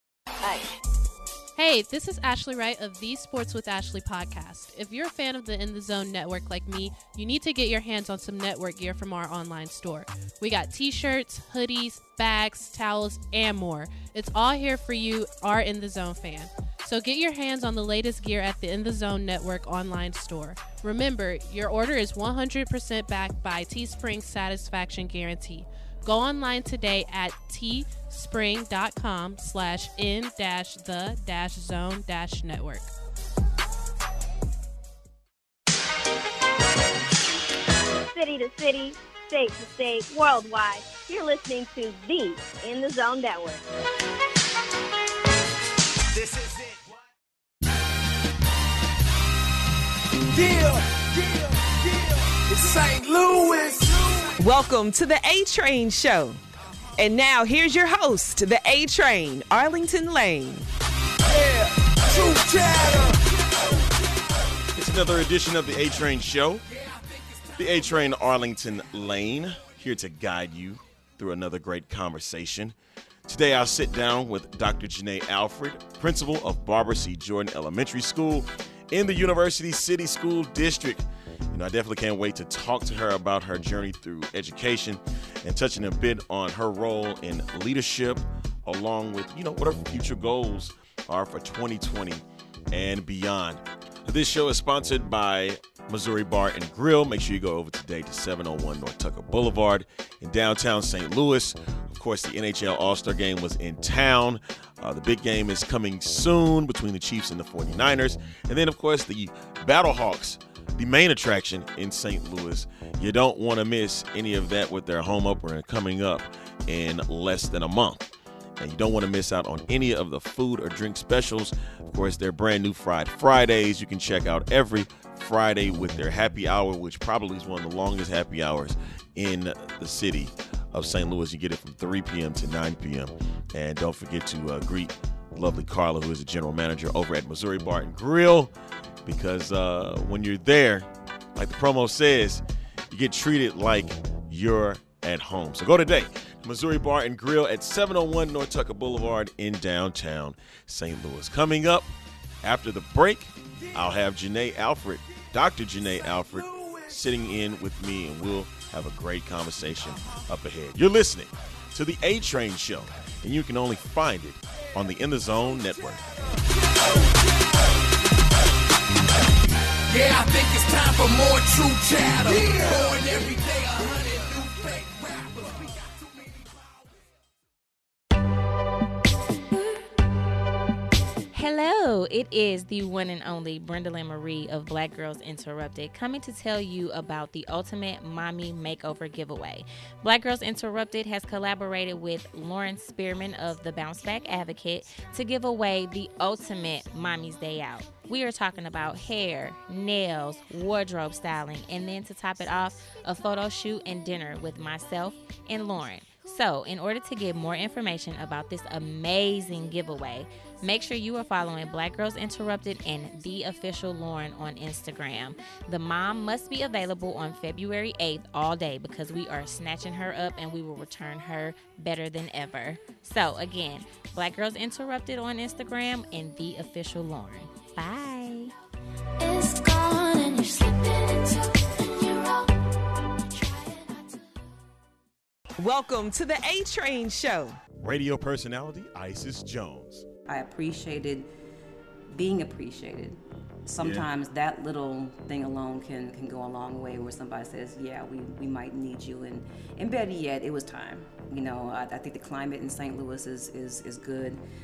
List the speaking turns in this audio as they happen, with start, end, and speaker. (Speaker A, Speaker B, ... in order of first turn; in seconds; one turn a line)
Speaker A: 1.6-32.9
Speaker B: 38.1-43.6
Speaker C: 46.1-46.8
Speaker C: 50.3-54.4
Speaker D: 54.4-56.4
Speaker D: 57.0-60.7
Speaker C: 61.2-63.9
Speaker E: 64.7-66.6
Speaker C: 66.7-67.6
Speaker E: 67.6-138.5
Speaker E: 139.0-151.9
Speaker E: 152.4-166.1
Speaker C: 166.6-167.4
Speaker C: 169.9-176.3
Speaker F: 181.3-228.5
Speaker G: 229.2-232.5
Speaker G: 233.3-234.2
Speaker D: 235.6-237.6
Speaker E: 237.8-240.0
Speaker H: 240.3-241.3
Speaker H: 242.1-254.4
Speaker E: 243.8-244.1